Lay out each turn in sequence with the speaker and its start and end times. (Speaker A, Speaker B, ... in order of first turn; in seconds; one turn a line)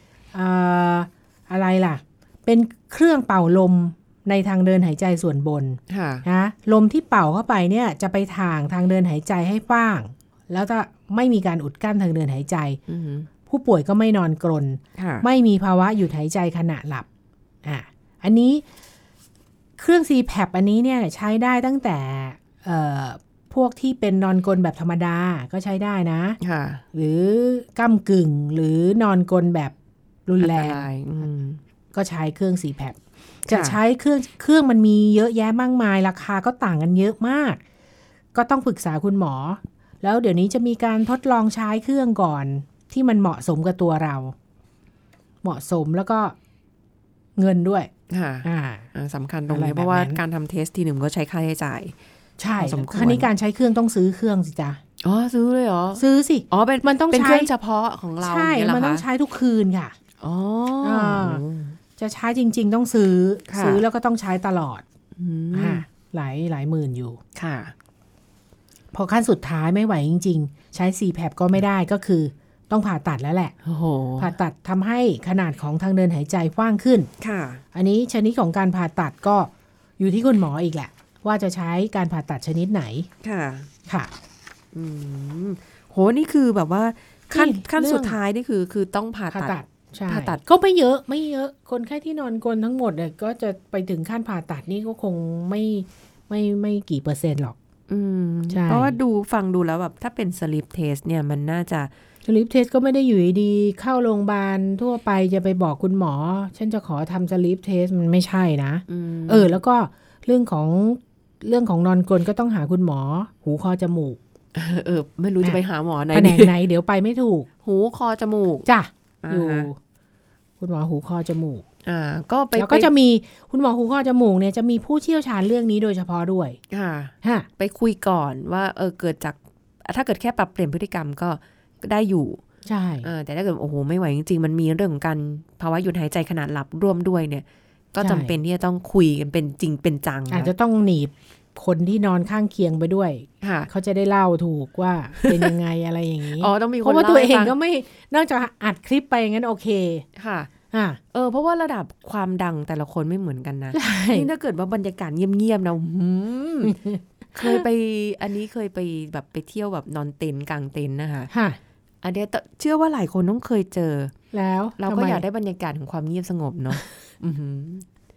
Speaker A: 0.3-12.8
Speaker B: 5.9-6.2
Speaker B: 12.9-13.3
Speaker A: 13.4-17.1
Speaker B: 15.0-15.2
Speaker A: 17.6-18.6
Speaker A: 19.8-26.4
Speaker B: 26.4-26.8
Speaker A: 26.9-29.7
Speaker A: 30.2-30.8
Speaker B: 30.4-31.6
Speaker A: 31.9-37.6
Speaker B: 33.5-33.8
Speaker A: 38.3-44.3
Speaker A: 45.4-46.3
Speaker A: 47.4-47.9
Speaker B: 48.1-51.9
Speaker A: 48.4-48.9
Speaker A: 49.5-50.2
Speaker A: 52.4-54.8
Speaker B: 52.6-53.3
Speaker B: 55.0-59.0
Speaker A: 56.0-57.5
Speaker A: 58.2-59.9
Speaker B: 60.2-61.8
Speaker A: 60.8-61.4
Speaker A: 62.0-64.8
Speaker B: 63.5-63.8
Speaker B: 65.2-65.8
Speaker A: 65.5-67.2
Speaker B: 67.3-67.7
Speaker A: 68.9-73.5
Speaker B: 73.6-74.3
Speaker A: 74.2-77.1
Speaker B: 77.2-77.6
Speaker A: 77.7-83.1
Speaker B: 83.2-83.7
Speaker A: 83.9-84.1
Speaker B: 84.7-90.4
Speaker A: 87.3-88.2
Speaker A: 89.3-97.5
Speaker B: 97.9-101.9
Speaker A: 98.5-99.0
Speaker A: 102.2-114.2
Speaker B: 108.9-109.6
Speaker B: 114.5-116.5
Speaker A: 116.1-117.5
Speaker B: 117.6-118.7
Speaker A: 118.7-119.8
Speaker B: 119.2-119.7
Speaker A: 120.6-121.6
Speaker B: 121.8-122.9
Speaker A: 122.5-126.6
Speaker B: 126.7-132.4
Speaker A: 127.2-127.5
Speaker A: 132.7-133.1
Speaker B: 133.0-140.5
Speaker A: 138.0-138.3
Speaker A: 140.3-150.0
Speaker B: 143.4-143.7
Speaker B: 145.2-145.5
Speaker B: 146.3-147.5
Speaker B: 150.2-150.5
Speaker A: 150.7-151.0
Speaker B: 151.1-156.8
Speaker A: 153.7-154.3
Speaker A: 156.6-157.6
Speaker B: 157.3-161.3
Speaker A: 161.3-161.6
Speaker B: 162.0-164.1
Speaker A: 164.3-165.2
Speaker B: 164.8-167.8